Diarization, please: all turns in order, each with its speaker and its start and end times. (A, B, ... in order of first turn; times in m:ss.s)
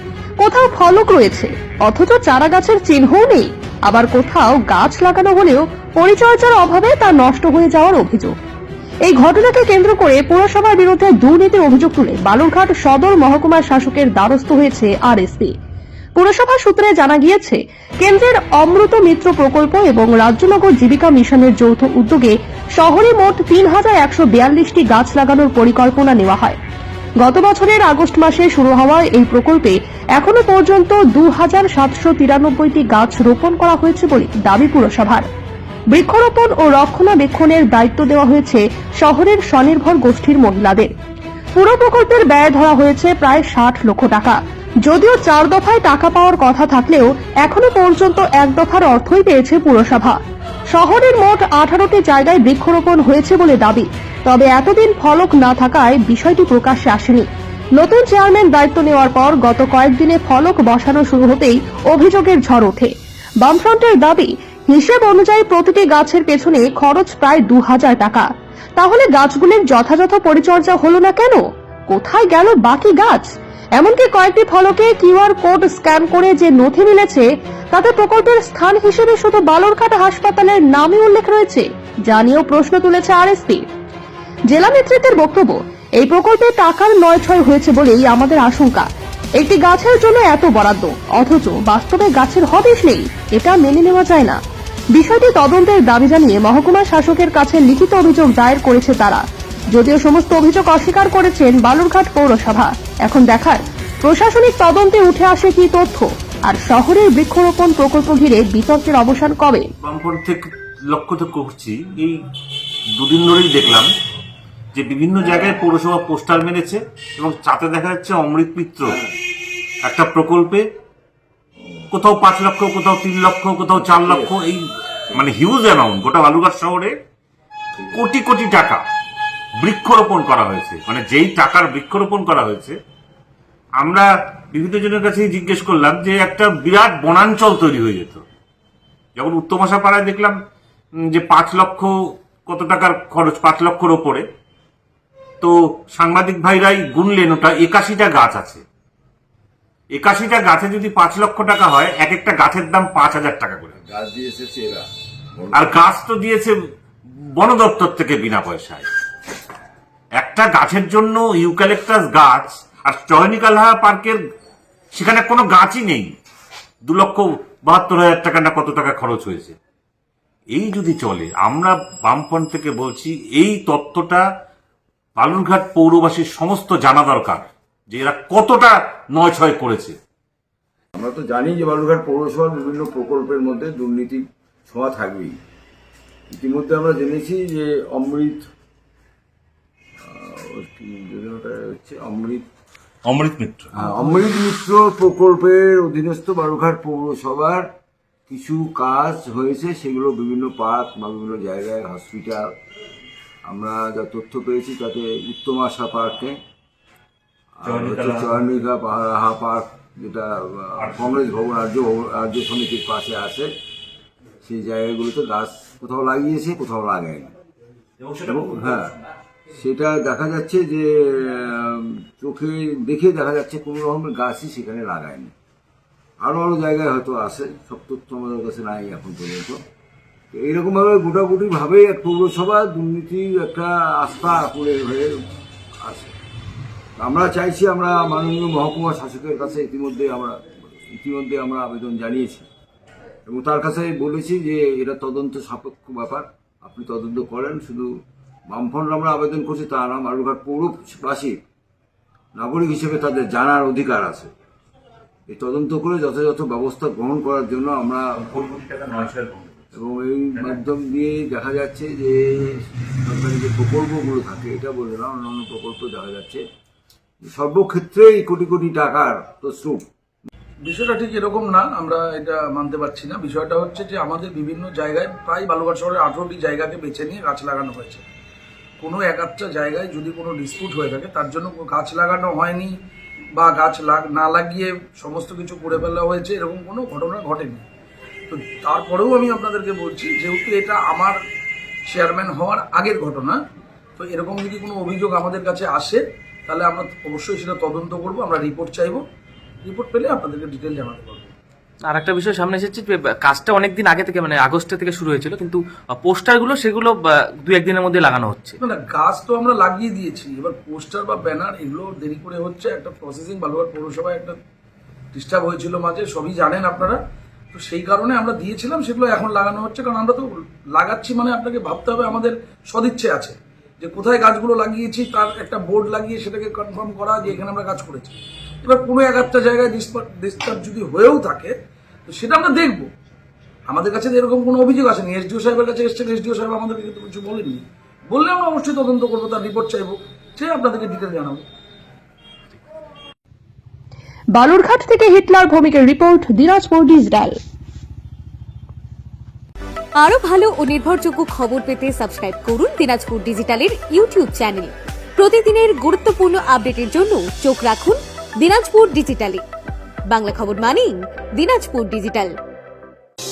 0:00.4-0:08.3 A
0:09.0-0:15.5 A
0:16.1-0:26.6 A
0:27.2-0:35.3 A
0:35.9-0:40.9 A
0:41.6-0:50.2 A
0:50.7-1:23.6 A
1:24.5-1:28.9 A
1:29.4-1:34.4 A
1:34.9-1:49.7 A
1:49.8-1:52.2 B
1:53.0-1:53.9 B
1:54.7-1:59.0 B
1:55.2-1:55.6 C
1:58.8-1:59.2 C
1:59.8-2:00.6 B
2:01.6-2:01.9 C
2:01.9-2:06.9 B
2:03.7-2:04.4 C
2:07.7-2:08.0 C
2:07.9-2:08.8 B
2:09.6-2:12.8 B
2:13.8-2:18.2 B
2:19.2-2:20.4 B
2:21.1-2:24.2 B
2:25.4-2:28.6 B
2:29.9-2:33.8 B
2:33.8-2:35.7 C
2:35.5-2:36.5 B
2:37.3-2:38.9 B
2:40.2-2:44.2 B
2:44.9-2:46.1 B
2:46.8-2:49.6 B
2:50.5-2:54.2 B
2:55.2-3:00.0 B
3:00.9-3:05.4 C
3:06.3-3:08.5 C
3:10.0-3:12.4 C
3:13.0-3:13.7 B
3:13.7-3:17.7 C
3:18.3-3:22.5 C
3:23.4-3:26.4 C
3:27.6-3:33.5 C
3:27.6-3:28.5 B
3:34.4-3:37.3 C
3:38.0-3:38.9 B
3:38.3-3:39.0 C
3:39.5-3:45.3 C
3:46.2-3:49.6 C
3:50.3-3:55.2 C
3:55.8-3:56.1 C
3:57.0-4:02.5 C
4:03.2-4:07.9 C
4:08.5-4:11.4 C
4:12.3-4:14.3 C
4:15.3-4:18.2 C
4:18.2-4:19.6 B
4:19.7-4:26.4 C
4:20.4-4:20.6 B
4:27.3-4:29.8 C
4:30.6-4:38.0 D
4:38.8-4:42.7 D
4:43.3-4:47.6 D
4:48.3-4:51.2 D
4:51.9-4:53.4 D
4:54.0-4:59.0 D
4:59.6-5:01.3 D
5:01.9-5:08.5 E
5:08.6-5:14.4 D
5:15.1-5:17.0 D
5:17.5-5:31.5 D
5:32.1-5:32.9 D
5:33.7-5:41.4 D
5:44.3-5:47.4 A
5:50.0-5:59.4 F
6:00.1-6:02.3 F